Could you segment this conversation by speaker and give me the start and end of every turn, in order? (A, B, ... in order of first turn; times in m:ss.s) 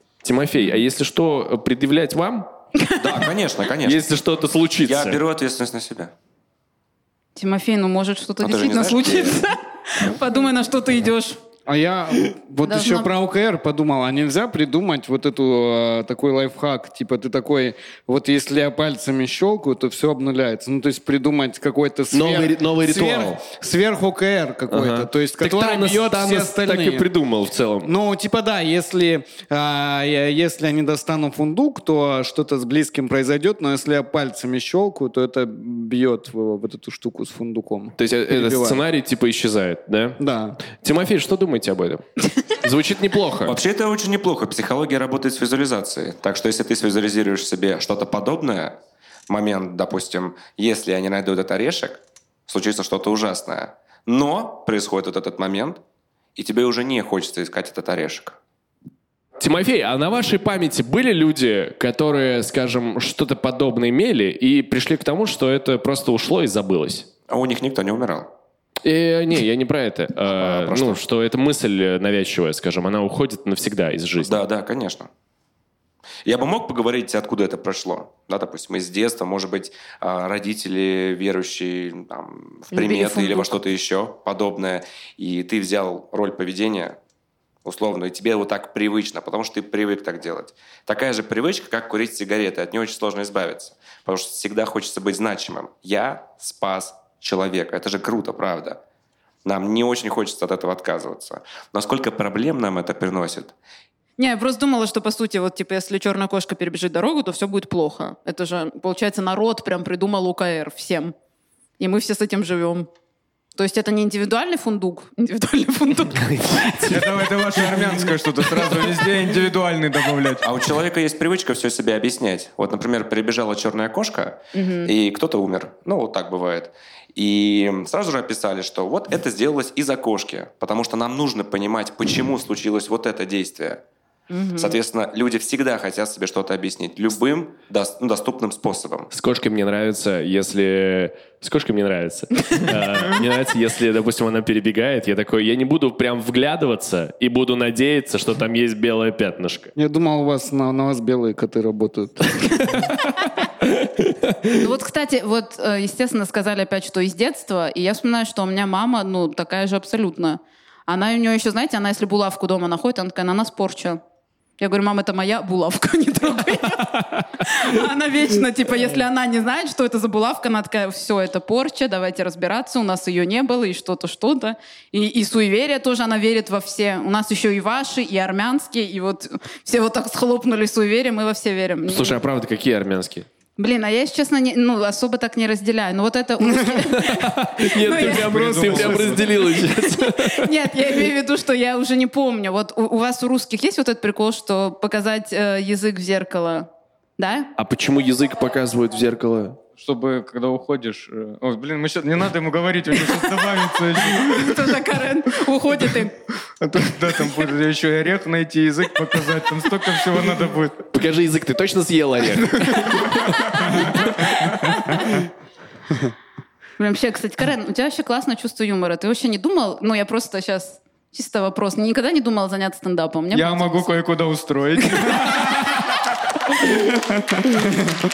0:00.2-0:02.5 A
0:02.8-0:03.2 B
0:03.0-0:04.1 C
0:03.8-0:05.2 A
0:04.9-0:06.1 C
0:07.4-0:11.4 B
0:08.4-0:09.4 C
0:11.7-0:27.1 D
0:12.6-0:13.1 B
0:22.1-0:23.4 A
0:24.7-0:27.9 A
0:27.8-0:38.8 D
0:38.0-0:43.6 A
0:40.2-0:40.6 D
0:43.4-0:48.8 C
0:49.3-0:55.8 C
0:56.4-0:58.4 C
0:59.4-1:07.1 A
1:07.3-1:08.3 C
1:08.8-1:14.4 A
1:10.3-1:11.0 C
1:14.2-1:15.1 C
1:16.2-1:27.0 C
1:22.7-1:23.6 B
1:27.6-1:38.8 C
1:39.4-1:43.5 C
1:44.2-1:51.1 B
1:51.8-1:52.9 B
1:53.6-1:57.0 B
1:56.2-1:57.1 A
1:56.9-2:00.4 E
2:00.4-2:13.8 C
2:04.5-2:04.9 B
2:14.3-2:14.8 B
2:14.6-2:19.1 C
2:19.1-2:29.7 A
2:29.8-2:32.8 D
2:34.2-2:34.5 A
2:34.5-2:44.0 B
2:44.6-3:02.2 B
3:01.9-3:03.3 A
3:03.6-3:08.3 B
3:06.4-3:06.8 D
3:06.9-3:10.6 A
3:07.9-3:09.4 E
3:08.2-3:09.0 D
3:09.1-3:17.5 B
3:17.6-3:19.6 A
3:19.8-3:24.6 E
3:24.2-3:26.2 B
3:26.6-3:30.8 E
3:30.9-3:35.2 A
3:36.8-3:43.9 B
3:43.3-3:45.8 E